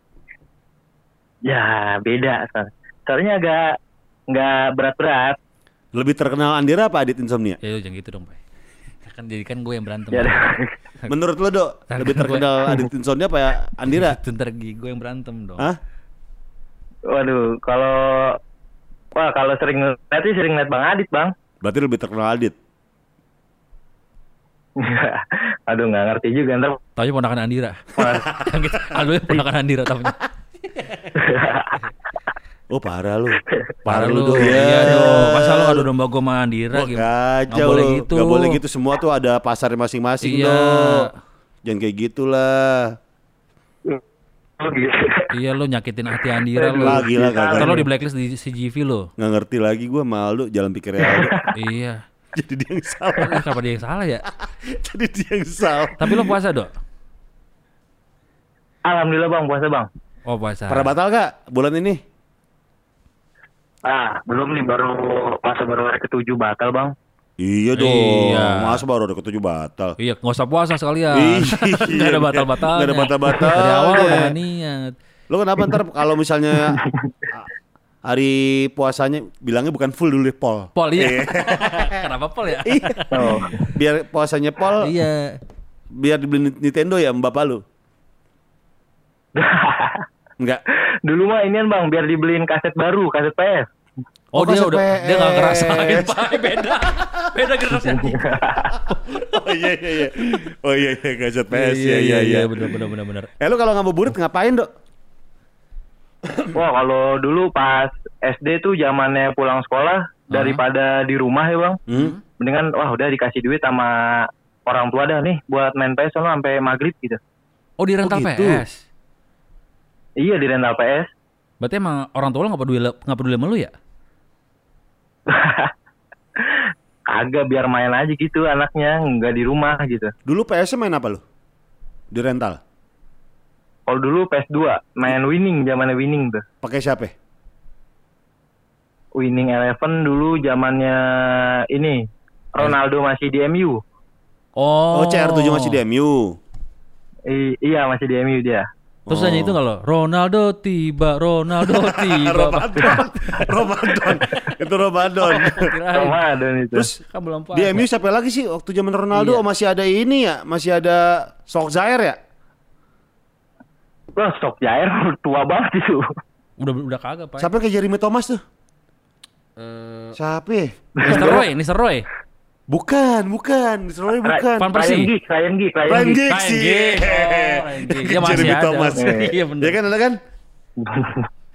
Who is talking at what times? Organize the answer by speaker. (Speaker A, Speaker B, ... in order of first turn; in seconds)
Speaker A: 1.4-3.8, 4.3-5.4, 10.1-10.7, 17.1-18.4, 19.1-21.3, 24.8-26.8, 27.9-28.4, 31.1-31.8, 44.6-45.3, 46.5-47.8, 51.0-51.5, 58.8-59.9, 63.8-66.9, 76.5-77.1, 83.1-83.7, 89.3-90.0, 91.0-93.7, 97.7-98.7, 106.5-111.8, 112.4-117.2, 120.2-121.1, 125.3-125.7, 126.4-130.1, 133.9-136.4, 139.2-143.8, 147.3-148.7, 155.9-156.9, 164.1-166.1, 171.0-171.4, 174.2-176.2, 178.9-179.4, 180.8-181.3
Speaker B: 5.9-7.6, 11.1-14.2, 21.6-22.5, 28.1-28.9, 32.7-35.9, 36.7-41.1, 41.6-43.0, 46.8-47.9, 49.2-51.5, 52.4-53.5, 54.6-56.3, 60.7-62.0, 67.4-70.0, 71.1-74.3, 75.3-77.5, 78.0-82.1, 82.6-84.9, 85.9-87.6, 94.3-97.4, 98.7-102.7, 103.4-104.7, 111.9-112.1, 118.0-118.6, 130.2-131.2, 132.1-132.6, 136.6-137.1, 144.9-146.4, 149.1-149.6, 151.6-155.7, 157.5-162.2, 167.4-168.4, 170.1-171.5, 172.7-174.7, 175.9-180.2
Speaker C: 7.6-8.4, 9.0-11.1, 11.9-12.9, 13.8-15.7, 26.9-30.1, 33.9-38.6, 40.2-41.2, 45.3-49.1, 51.5-52.0, 53.2-54.2, 56.0-56.7, 60.2-60.9, 67.7-68.8, 70.0-75.0, 80.8-83.5, 84.8-85.4, 94.3-98.9, 101.5-103.3, 110.3-110.6, 111.9-112.2, 117.8-118.8, 121.6-123.7, 144.6-145.8, 149.1-154.4, 155.2-156.2, 156.9-157.9, 159.1-159.4, 166.6-167.5, 169.6-170.2, 171.0-172.1, 174.6-175.1, 176.2-179.8